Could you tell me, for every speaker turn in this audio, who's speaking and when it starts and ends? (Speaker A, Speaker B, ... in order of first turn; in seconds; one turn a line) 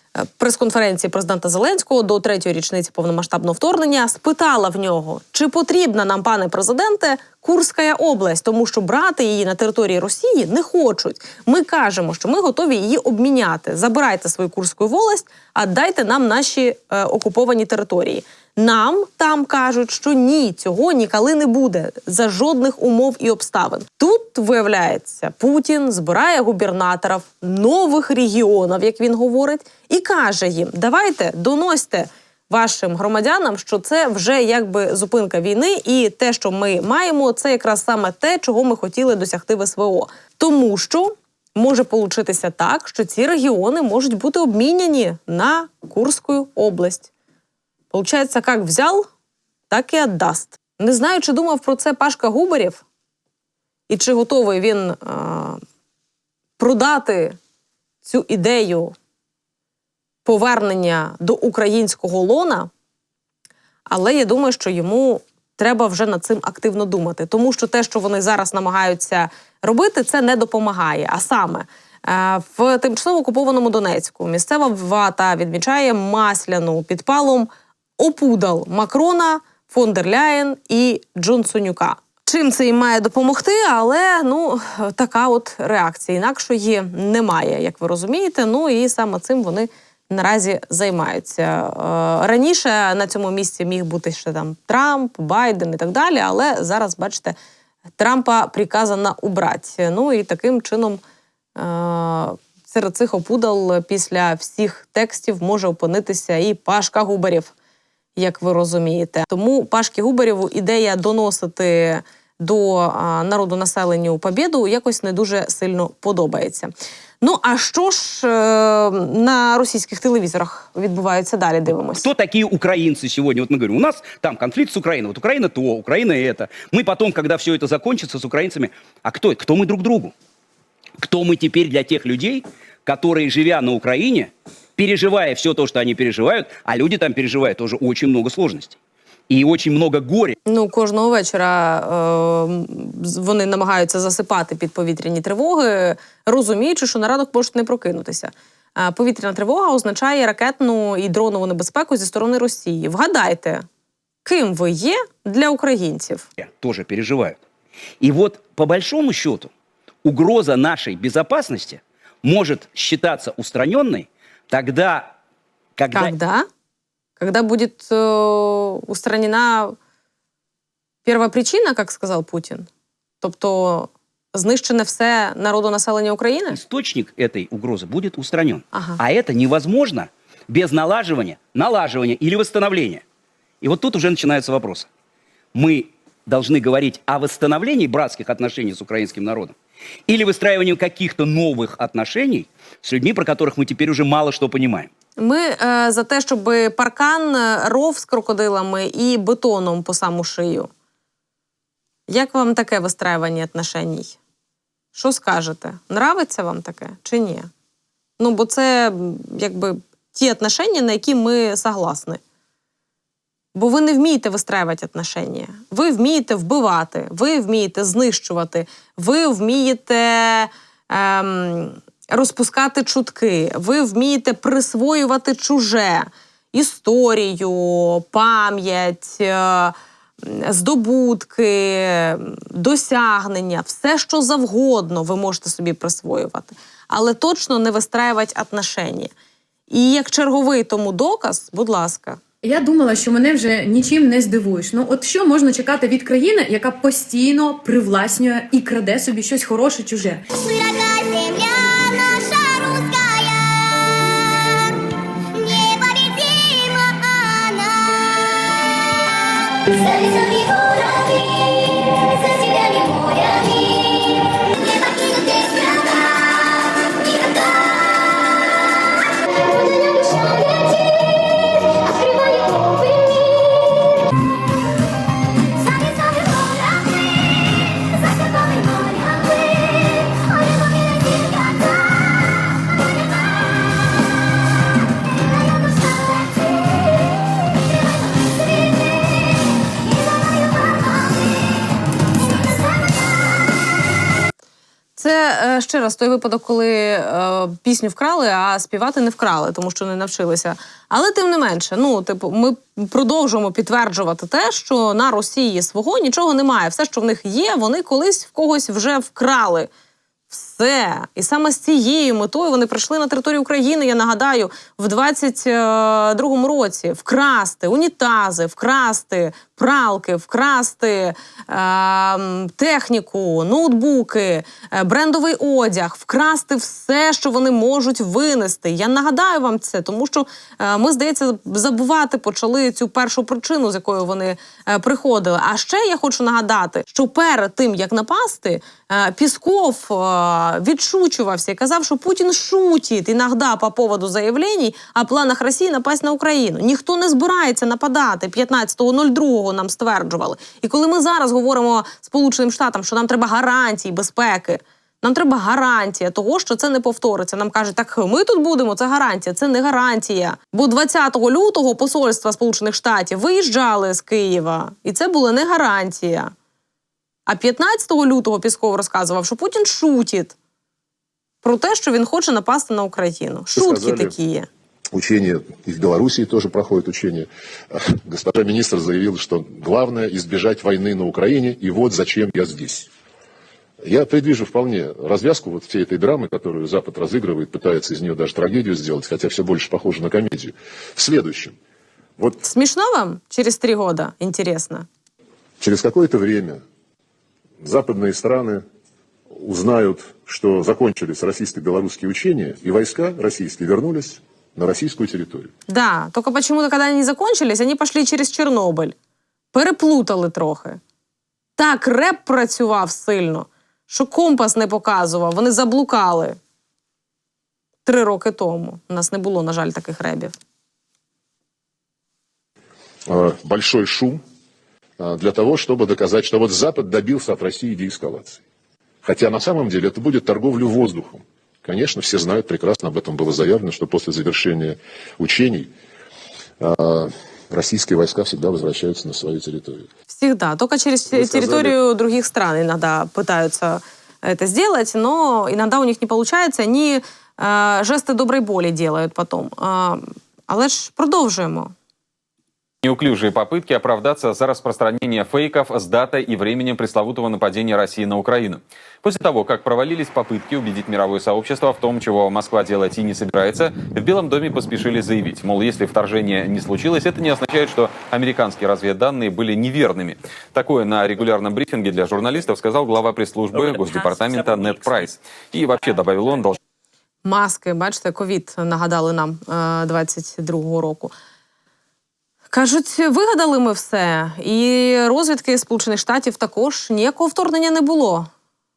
Speaker A: 0.2-47.1
Speaker A: 47.9-49.1
Speaker A: 49.7-52.8
Speaker A: 53.9-55.6
Speaker A: 56.6-57.4
Speaker A: 58.0-58.9
Speaker A: 60.2-62.7
Speaker A: 63.9-97.4
Speaker A: 98.0-101.0
Speaker A: 101.6-107.5
Speaker A: 108.2-122.1
Speaker B: 122.0-130.1
Speaker B: 131.0-138.8
Speaker B: 139.3-140.4
Speaker A: 140.5-153.7
Speaker A: 154.2-156.3
Speaker B: 156.4-157.4
Speaker B: 158.0-159.5
Speaker B: 160.1-165.1
Speaker B: 165.8-166.2
Speaker A: 165.9-166.5
Speaker A: 167.2-169.8
Speaker A: 171.1-172.7
Speaker A: 173.2-176.6
Speaker B: 176.5-183.0
Speaker A: 178.7-179.0
Speaker B: 183.6-184.9
Speaker B: 185.5-189.6
Speaker B: 190.1-194.9
Speaker A: 195.2-200.7
Speaker A: 202.1-204.2
Speaker A: 204.9-207.5
Speaker A: 208.2-212.2
Speaker A: 213.6-239.1
Speaker A: 239.7-242.2
Speaker C: 242.4-250.2
Speaker D: 250.3-254.4
Speaker D: 255.4-258.8
Speaker D: 259.6-268.1
Speaker D: 269.3-271.1
Speaker D: 271.6-273.9
Speaker D: 275.5-282.4
Speaker D: 285.1-286.5
Speaker D: 288.1-291.2
Speaker D: 292.4-292.9
Speaker A: 295.0-309.7
Speaker A: 310.3-366.3
Speaker A: 367.3-370.4
Speaker A: 371.4-374.5
Speaker E: 373.5-374.2
Speaker E: 374.9-382.9
Speaker E: 383.8-391.6
Speaker A: 392.4-394.9
Speaker E: 395.6-396.6
Speaker E: 397.6-398.6
Speaker E: 399.4-405.5
Speaker A: 405.7-408.9
Speaker A: 409.5-410.8
Speaker A: 411.6-416.4
Speaker A: 417.9-420.3
Speaker E: 423.1-424.2
Speaker E: 425.0-428.4
Speaker E: 429.0-435.7
Speaker E: 436.6-439.9
Speaker A: 440.1-451.7
Speaker E: 441.1-441.8
Speaker F: 452.8-476.6
Speaker A: 477.2-481.1
Speaker A: 482.5-488.3